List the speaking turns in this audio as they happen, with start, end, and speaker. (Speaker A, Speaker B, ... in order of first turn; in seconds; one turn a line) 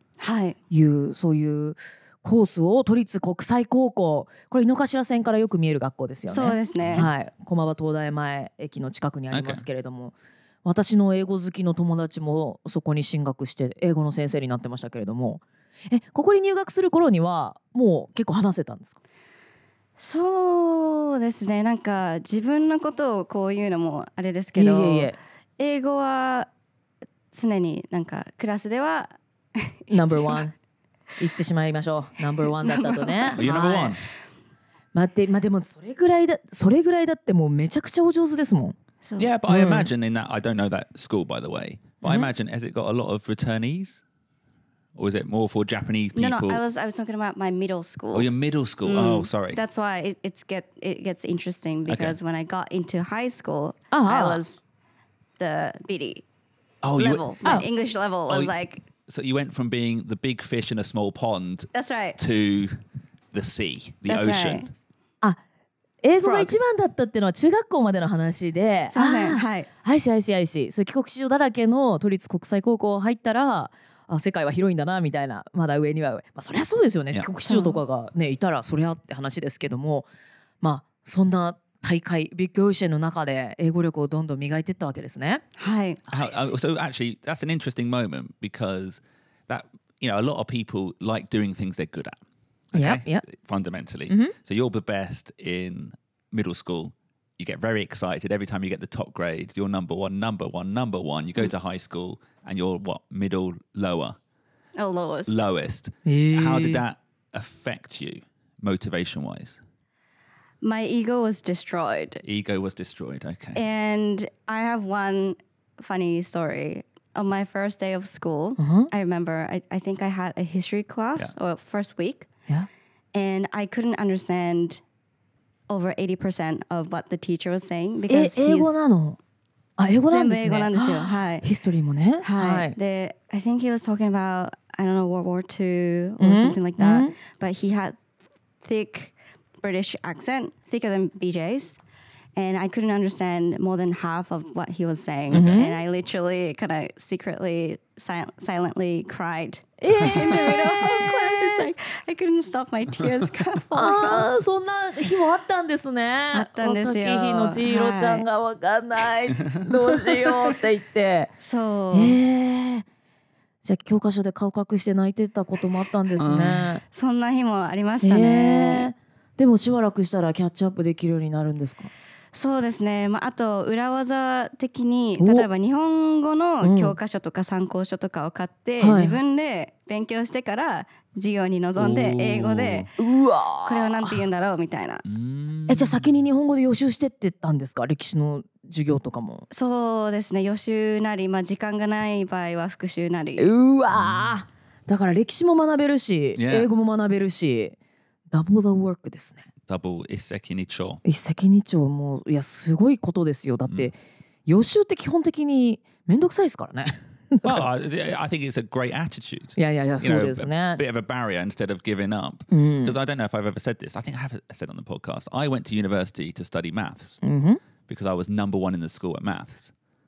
Speaker A: 0.2-0.6
Speaker B: 0.7-19.0
Speaker A: 6.3-7.1
Speaker C: 6.8-7.1
Speaker C: 9.3-9.6
Speaker A: 20.0-26.5
Speaker B: 24.5-25.1
Speaker A: 27.3-30.4
Speaker B: 29.9-30.5
Speaker B: 31.2-34.0
Speaker A: 32.4-33.4
Speaker C: 33.4-34.0
Speaker B: 34.9-38.8
Speaker A: 39.0-39.3
Speaker C: 39.2-44.0
Speaker B: 39.5-39.9
Speaker B: 42.0-42.3
Speaker C: 44.9-46.6
Speaker A: 46.1-48.3
Speaker C: 48.1-49.6
Speaker A: 48.8-54.6
Speaker C: 51.9-52.2
Speaker B: 53.9-54.4
Speaker A: 55.4-56.2
Speaker C: 56.8-57.3
Speaker A: 57.0-58.8
Speaker C: 58.3-58.5
Speaker C: 59.0-62.8
Speaker A: 61.7-62.2
Speaker C: 63.3-64.6
Speaker A: 64.0-64.7
Speaker B: 66.0-80.1
Speaker A: 66.2-66.5
Speaker A: 68.9-69.7
Speaker A: 77.5-77.8
Speaker B: 80.6-85.4
Speaker A: 85.6-86.5
Speaker C: 86.1-92.2
Speaker C: 92.7-104.2
Speaker B: 92.7-93.2
Speaker B: 94.1-94.3
Speaker A: 104.8-105.4
Speaker C: 105.2-109.6
Speaker B: 106.0-106.8
Speaker A: 110.6-112.2
Speaker C: 112.2-113.6
Speaker A: 113.5-122.3
Speaker B: 118.6-118.9
Speaker A: 123.1-124.8
Speaker A: 125.7-128.8
Speaker B: 128.1-129.2
Speaker B: 129.8-132.8
Speaker A: 130.1-131.4
Speaker A: 132.2-138.0
Speaker B: 136.2-137.1
Speaker A: 138.6-141.8
Speaker A: 142.3-154.3
Speaker C: 145.3-145.7
Speaker B: 145.3-145.8
Speaker B: 149.8-151.7
Speaker B: 153.7-161.3
Speaker A: 156.3-158.2
Speaker A: 161.4-162.2
Speaker B: 161.9-162.8
Speaker B: 163.6-166.8
Speaker C: 166.2-166.7
Speaker A: 166.9-168.9
Speaker B: 168.0-171.9
Speaker A: 172.3-182.9
Speaker B: 175.2-175.5
Speaker B: 176.6-176.9
Speaker B: 178.8-179.2
Speaker C: 181.8-182.9
Speaker B: 183.0-184.2
Speaker A: 183.6-185.0
Speaker C: 185.0-186.1
Speaker B: 185.7-189.4
Speaker A: 189.5-193.5
Speaker B: 193.4-197.8
Speaker C: 193.9-194.4
Speaker C: 196.3-196.7
Speaker B: 198.3-199.5
Speaker C: 199.7-201.0
Speaker B: 201.0-203.9
Speaker B: 204.5-207.7
Speaker C: 207.4-217.2
Speaker B: 209.6-210.8
Speaker B: 212.5-212.9
Speaker B: 217.2-217.6
Speaker C: 217.9-219.7